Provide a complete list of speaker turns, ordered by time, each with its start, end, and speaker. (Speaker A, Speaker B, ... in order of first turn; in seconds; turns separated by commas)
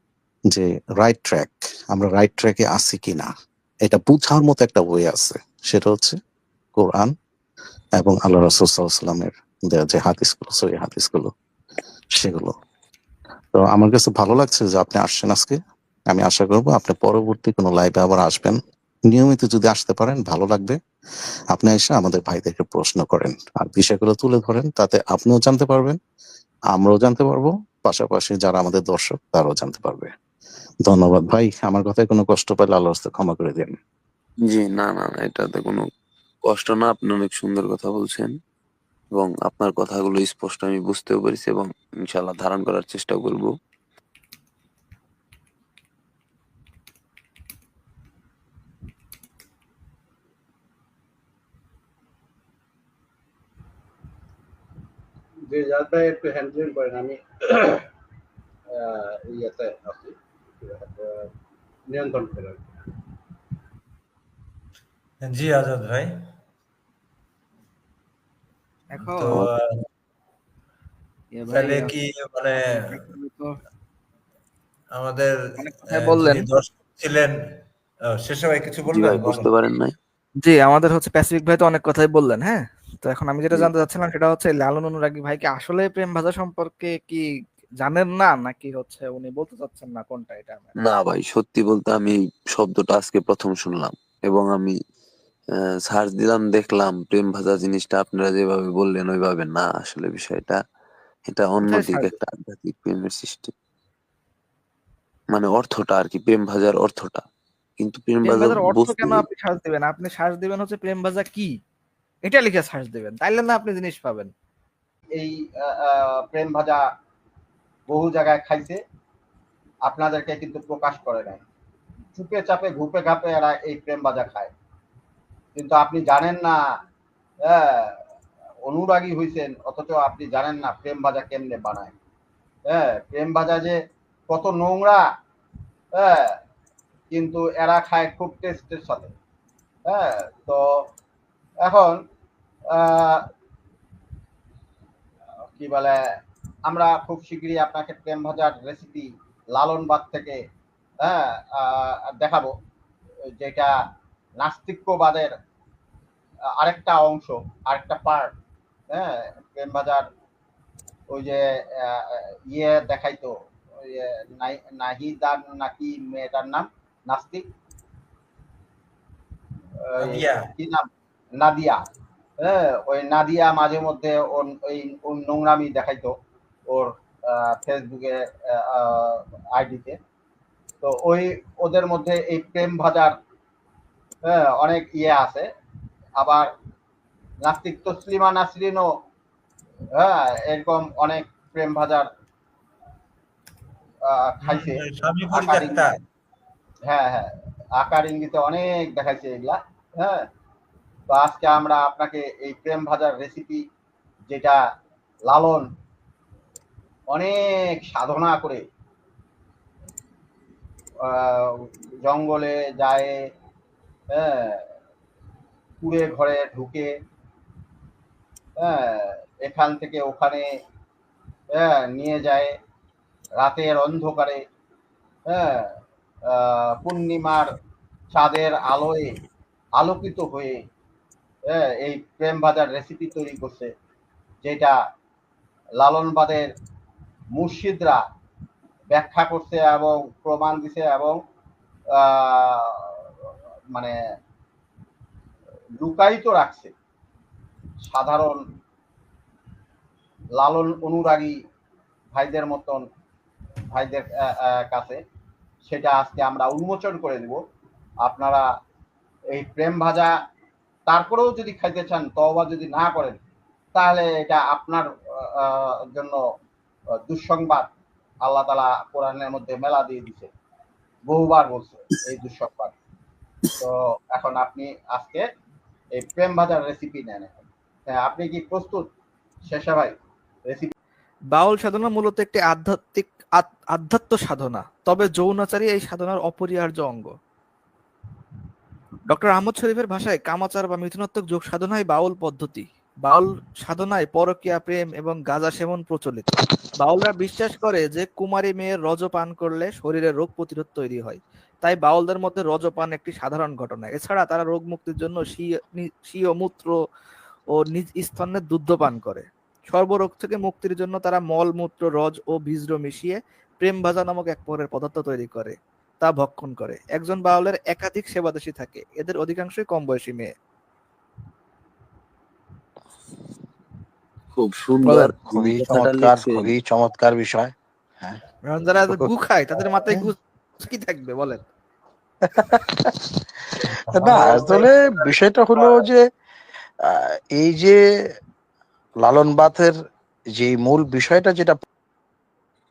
Speaker A: 0.5-3.3, Speaker A: 3.8-6.2, Speaker A: 6.8-7.1, Speaker A: 8.0-11.3, Speaker A: 12.1-12.5, Speaker A: 13.5-15.6, Speaker A: 16.1-18.6, Speaker A: 19.1-20.8, Speaker A: 21.5-26.0, Speaker A: 26.7-30.1, Speaker A: 30.9-33.7, Speaker B: 34.5-35.9, Speaker B: 36.5-38.3, Speaker B: 39.1-43.5, Speaker C: 55.5-57.8, Speaker C: 58.7-61.3, Speaker C: 61.9-62.6, Speaker D: 65.2-66.2, Speaker E: 68.9-69.4, Speaker D: 68.9-69.6, Speaker E: 71.3-71.9, Speaker D: 71.5-73.0, Speaker E: 73.0-73.6, Speaker D: 74.9-77.4, Speaker E: 75.6-76.5, Speaker D: 78.0-79.5, Speaker B: 78.8-79.9, Speaker E: 80.4-87.2, Speaker B: 83.5-83.8, Speaker E: 87.8-90.7, Speaker B: 90.8-94.7, Speaker B: 95.8-100.6, Speaker B: 101.3-103.5, Speaker E: 101.6-102.1, Speaker B: 105.3-107.2, Speaker B: 107.8-109.2, Speaker E: 108.2-111.5, Speaker E: 112.2-114.3, Speaker C: 115.1-116.8, Speaker C: 117.9-118.8, Speaker C: 119.8-121.4, Speaker C: 122.1-124.5, Speaker C: 125.5-126.6, Speaker C: 127.5-127.9, Speaker C: 128.7-131.9, Speaker C: 132.7-133.8, Speaker C: 134.3-135.0, Speaker C: 135.9-136.3, Speaker C: 137.1-139.1, Speaker C: 139.8-140.6, Speaker C: 141.6-142.0, Speaker C: 142.7-143.2, Speaker C: 145.5-145.9, Speaker C: 146.7-150.4, Speaker C: 151.0-152.5, Speaker C: 153.4-153.7, Speaker C: 154.4-155.3, Speaker C: 156.6-158.3, Speaker C: 158.9-160.1, Speaker C: 161.1-163.3, Speaker C: 163.8-167.4, Speaker C: 169.9-170.8, Speaker D: 170.0-170.5, Speaker C: 171.4-171.8, Speaker C: 172.4-176.1, Speaker C: 176.7-180.0, Speaker C: 180.8-183.1, Speaker C: 184.3-185.4, Speaker C: 186.2-186.5, Speaker C: 187.4-188.9, Speaker C: 189.9-192.1, Speaker C: 194.1-195.9, Speaker D: 194.4-195.9, Speaker C: 196.9-200.2, Speaker C: 201.1-203.6, Speaker C: 204.3-204.6, Speaker C: 205.3-205.7, Speaker C: 207.1-208.6, Speaker C: 211.1-213.1, Speaker C: 214.1-214.6, Speaker C: 215.8-216.9, Speaker C: 218.6-220.4, Speaker C: 221.5-222.5, Speaker C: 223.4-224.4, Speaker C: 225.3-225.7, Speaker C: 226.3-227.4, Speaker C: 228.1-229.1, Speaker C: 229.8-230.6, Speaker C: 231.5-233.7, Speaker C: 234.4-234.8, Speaker C: 235.8-236.5, Speaker C: 237.3-238.0, Speaker C: 238.9-241.2, Speaker C: 242.0-242.9, Speaker C: 245.8-246.7, Speaker C: 247.9-248.4, Speaker C: 250.4-251.3, Speaker C: 252.1-252.8, Speaker C: 253.7-255.0, Speaker C: 255.7-257.4, Speaker C: 258.0-258.4, Speaker C: 259.3-260.1, Speaker C: 260.9-263.2, Speaker C: 263.7-266.2, Speaker C: 267.1-267.7, Speaker C: 268.2-270.3, Speaker C: 271.1-272.8, Speaker C: 273.6-275.2, Speaker C: 275.9-277.3, Speaker C: 277.9-278.9, Speaker C: 279.5-279.9, Speaker C: 280.5-280.7, Speaker E: 281.3-287.1, Speaker E: 289.1-306.7, Speaker E: 307.6-320.3, Speaker B: 324.3-326.5, Speaker F: 324.8-330.1, Speaker E: 328.5-331.4, Speaker F: 332.3-332.9, Speaker F: 333.6-336.1, Speaker F: 336.9-337.8, Speaker F: 339.0-339.8, Speaker F: 340.3-341.6